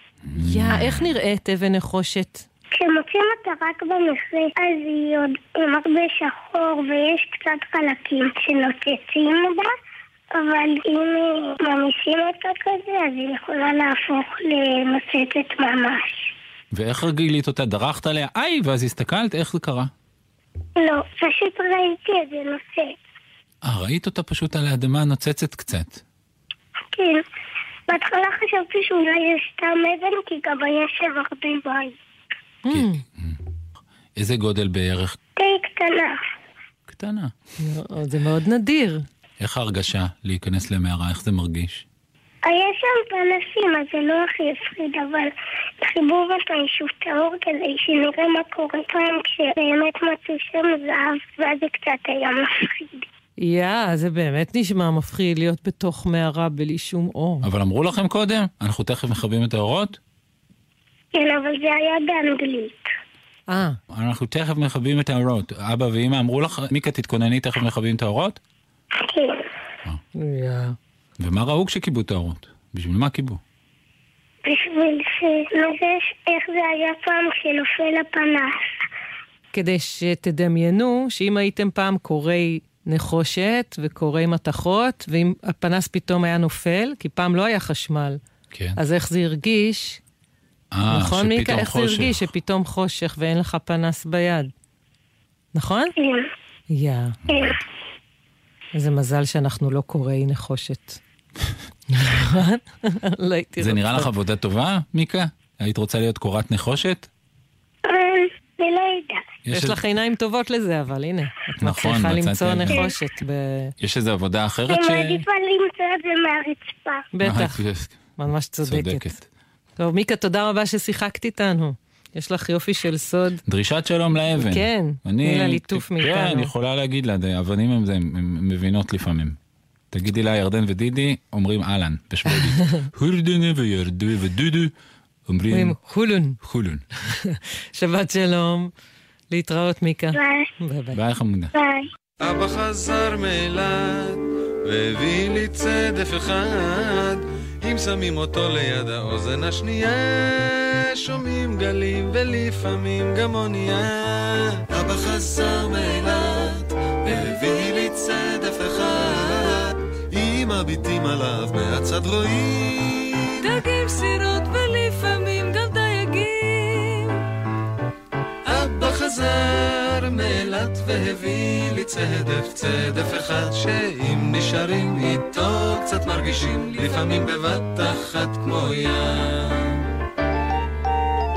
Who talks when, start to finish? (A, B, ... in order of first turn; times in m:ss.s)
0:00.3-0:01.1 A
0:00.4-0:02.5 B
0:02.8-0:09.7 C
0:10.4-0:16.3 C
0:16.7-0:19.9 A
0:20.8-0:22.9 C
0:23.6-0:26.0 A
0:26.9-0:27.2 C
0:27.9-0:31.9 C
0:32.6-0:33.0 B
0:32.7-0:33.4 A
0:34.2-0:35.2 A
0:35.4-0:36.2 C
0:36.9-0:37.3 A
0:37.6-0:39.1 B
0:39.4-0:41.8 A
0:42.5-0:45.3 C
0:45.8-0:53.0 C
0:53.4-0:57.5 B
0:57.4-1:00.0 A
1:01.1-1:02.8 C
1:03.5-1:03.8 B
1:03.9-1:08.4 A
1:09.0-1:09.5 C
1:10.2-1:10.8 B
1:11.2-1:13.4 A
1:14.4-1:18.6 C
1:19.5-1:28.2 B
1:28.5-1:28.8 A
1:28.8-1:30.0 B
1:30.7-1:32.2 A
1:30.9-1:34.5 B
1:35.6-1:35.9 B
1:36.0-1:36.3 C
1:36.7-1:37.2 B
1:37.3-1:37.6 C
1:38.7-1:41.0 B
1:41.9-1:44.1 B
1:43.6-1:47.1 A
1:47.9-1:49.2 C
1:49.5-1:49.8 A
1:49.5-1:53.7 B
1:51.6-1:52.9 A
1:53.8-1:55.2 A
1:54.7-1:57.0 C
1:57.1-1:57.6 B
1:57.2-1:58.0 A
1:58.2-1:59.0 B
1:58.6-1:59.2 A
1:59.8-2:03.4 B
2:03.5-2:09.4 A
2:04.4-2:06.5 B
2:09.9-2:14.7 A
2:15.3-2:15.8 A
2:15.5-2:16.4 B
2:16.4-2:16.8 A
2:17.2-2:18.7 B
2:19.3-2:21.0 B
2:20.2-2:20.5 C
2:20.9-2:21.5 A
2:21.6-2:21.9 C
2:22.2-2:34.0 D
2:34.6-2:43.5 D
2:43.4-2:47.2 E
2:48.4-2:59.7 D